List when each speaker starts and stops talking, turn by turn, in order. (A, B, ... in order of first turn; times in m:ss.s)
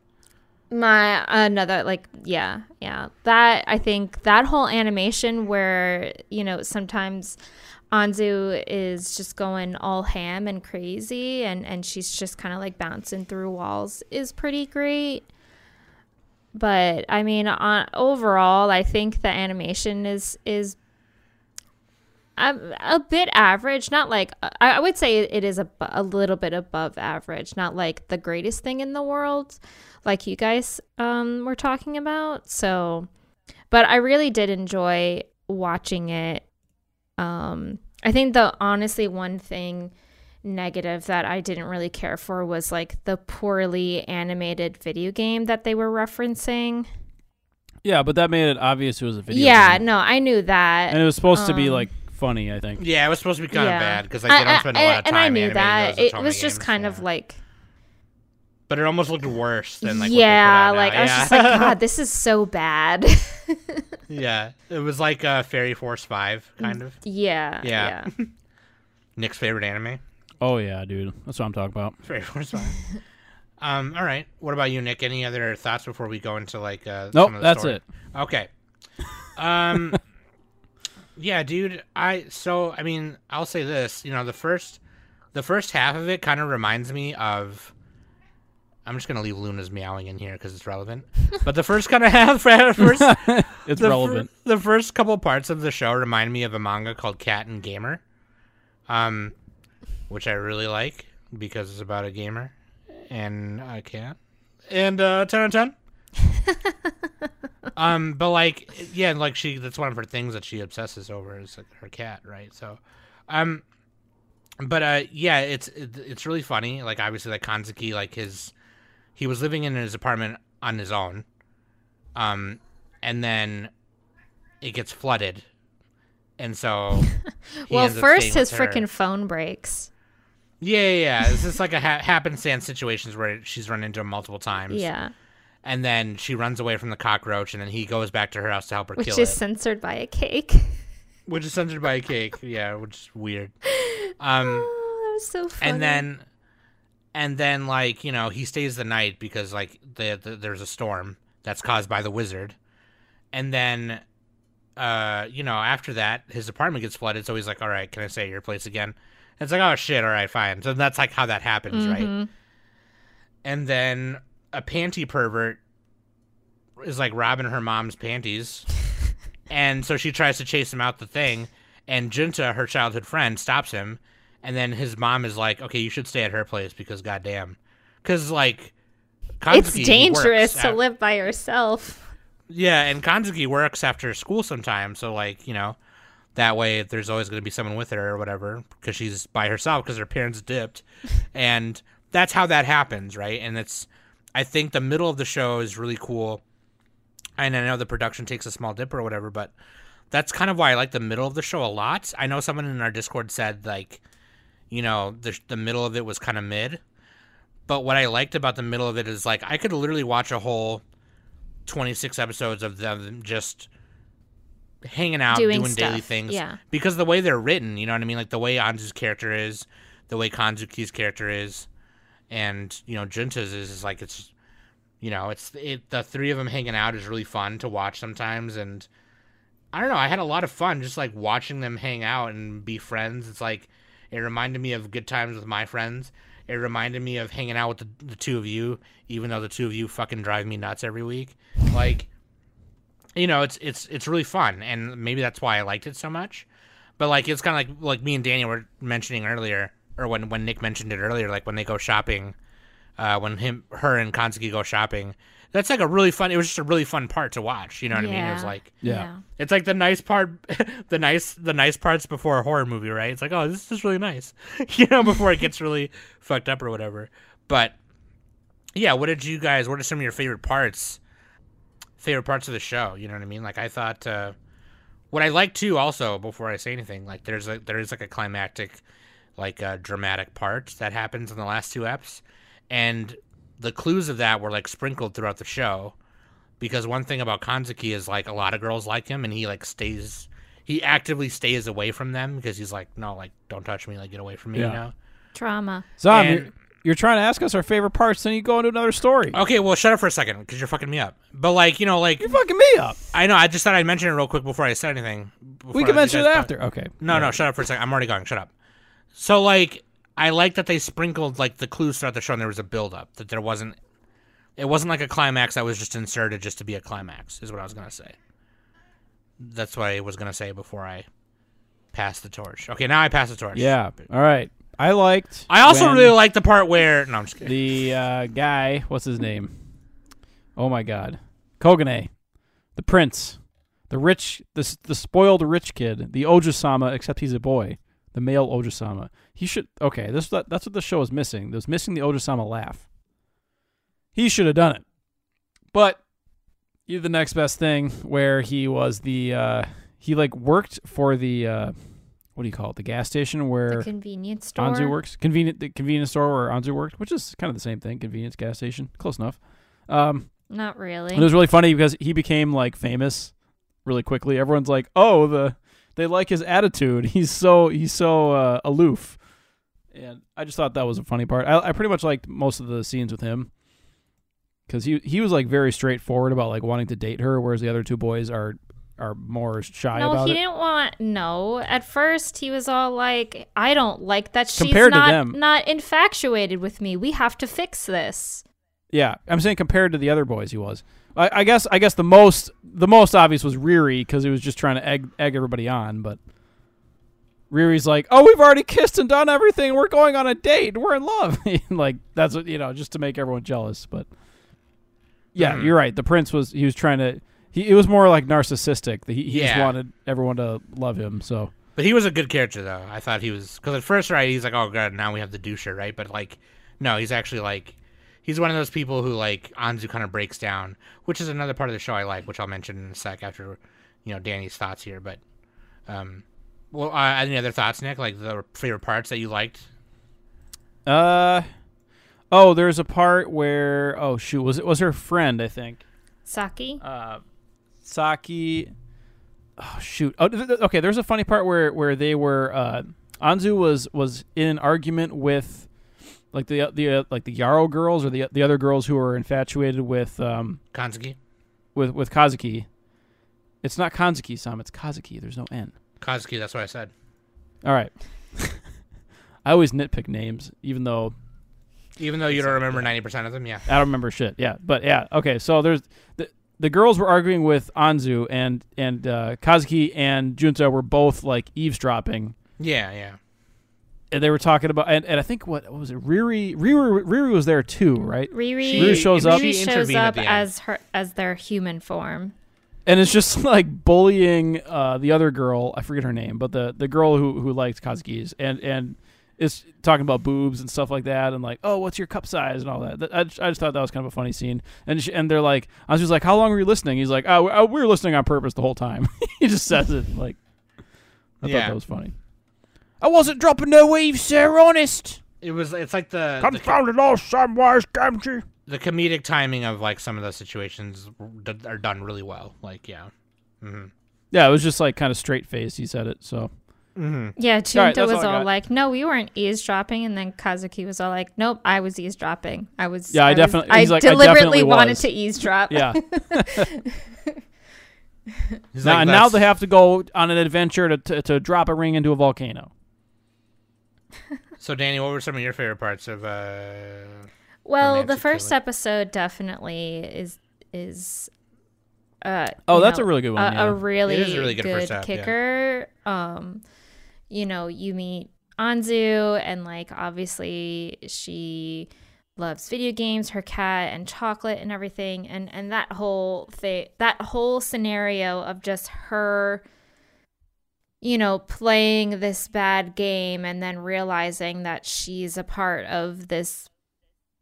0:00.7-0:07.4 A
0:07.9-0:15.3 A
0:16.5-0:20.8 A
0:22.4-0:33.1 A
0:33.7-0:36.5 A
0:37.2-0:39.9 A
0:40.4-0:46.9 A
0:47.8-0:49.8 B
0:49.3-0:51.9 A
0:50.9-0:52.8 B
0:52.8-0:57.0 C
0:53.5-0:57.4 A
0:58.7-1:01.8 C
0:59.8-1:04.0 A
1:04.1-1:07.0 C
1:06.6-1:08.1 A
1:07.6-1:08.3 C
1:09.2-1:10.0 C
1:10.4-1:12.0 B
1:12.0-1:12.8 C
1:13.6-1:18.5 C
1:17.1-1:17.8 B
1:19.4-1:20.0 C
1:21.2-1:24.8 C
1:25.3-1:27.7 C
1:28.8-1:38.0 C
1:32.8-1:34.3 B
1:38.9-1:39.3 C
1:40.1-1:45.8 C
1:47.8-1:53.6 C
1:54.6-1:58.5 C
1:59.2-2:01.3 C
2:02.2-2:03.7 C
2:04.6-2:05.5 C
2:06.4-2:07.2 C
2:07.6-2:09.9 A
2:07.7-2:08.8 C
2:10.6-2:14.9 C
2:14.7-2:15.1 A
2:15.6-2:19.4 C
2:19.0-2:20.8 A
2:21.3-2:23.6 C
2:23.7-2:26.0 A
2:24.2-2:24.7 C
2:25.6-2:26.2 C
2:27.1-2:32.6 C
2:33.3-2:34.0 C
2:34.8-2:42.1 C
2:41.7-2:42.3 A
2:43.4-2:45.6 C
2:46.8-2:48.7 C
2:49.5-2:58.7 C
2:59.4-3:00.8 C
2:59.5-3:02.1 A
3:02.5-3:05.8 C
3:06.4-3:16.4 C
3:17.4-3:19.5 C
3:20.1-3:24.0 C
3:24.7-3:26.8 C
3:27.7-3:30.8 C
3:31.7-3:33.7 C
3:34.8-3:41.7 C
3:35.3-3:36.6 A
3:42.3-3:44.3 C
3:45.0-3:48.9 C
3:49.7-4:02.1 C
4:03.2-4:06.5 C
4:07.0-4:12.4 C
4:13.0-4:18.8 C
4:17.9-4:19.2 A
4:18.8-4:19.1 B
4:19.4-4:27.8 C
4:28.8-4:31.0 C
4:32.0-4:34.4 C
4:35.1-4:38.8 C
4:39.4-4:46.0 C
4:46.6-4:54.9 C
4:54.6-4:54.8 B
4:55.3-4:55.9 A
4:56.0-4:59.4 B
4:56.1-4:56.5 C
4:59.3-5:02.3 C
5:02.2-5:03.0 B
5:03.1-5:08.5 C
5:05.7-5:07.3 B
5:09.2-5:13.8 C
5:14.6-5:18.2 C
5:19.4-5:21.1 C
5:21.9-5:23.7 C
5:23.6-5:26.2 B
5:25.5-5:27.5 C
5:27.4-5:29.9 B
5:30.6-5:42.9 B
5:44.2-5:44.9 B
5:45.7-5:46.1 B
5:46.8-5:53.9 B
5:53.7-5:55.0 A
5:54.6-6:00.5 B
6:00.5-6:01.3 A
6:01.1-6:09.2 B
6:09.9-6:13.5 B
6:14.7-6:20.4 B
6:20.0-6:28.4 A
6:24.6-6:25.4 B
6:28.9-6:36.2 B
6:37.5-6:44.1 B
6:45.3-6:51.5 B
6:45.4-6:45.7 C
6:49.3-6:49.7 C
6:51.8-7:05.2 C
7:05.9-7:09.7 C
7:10.9-7:11.5 B
7:12.3-7:15.8 B
7:16.3-7:16.8 A
7:16.8-7:17.2 B
7:17.8-7:18.7 B
7:19.6-7:25.7 B
7:26.3-7:30.6 B
7:30.7-7:31.2 C
7:31.8-7:32.7 B
7:33.6-7:35.7 B
7:36.0-7:36.9 C
7:37.6-7:38.7 B
7:39.4-7:41.1 B
7:42.0-7:43.7 C
7:42.3-7:42.9 B
7:43.7-7:52.4 B
7:52.6-7:53.2 C
7:54.1-7:59.4 B
7:58.3-8:02.3 A
7:58.6-8:00.5 C
8:02.9-8:20.4 B
8:21.4-8:22.2 B
8:21.4-8:21.8 C
8:23.0-8:25.2 B
8:25.4-8:26.8 C
8:26.4-8:28.4 B
8:28.7-8:33.9 C
8:34.3-8:36.5 B
8:37.0-8:37.3 C
8:37.4-8:47.0 A
8:37.7-8:38.5 B
8:43.1-8:46.7 B
8:48.7-8:49.4 C
8:48.8-8:52.7 B
8:54.6-8:57.3 C
8:57.6-9:01.3 A
8:57.8-8:58.5 C
9:02.2-9:06.6 A
9:02.7-9:03.8 B
9:04.1-9:05.3 C
9:07.3-9:19.6 A
9:21.0-9:26.7 A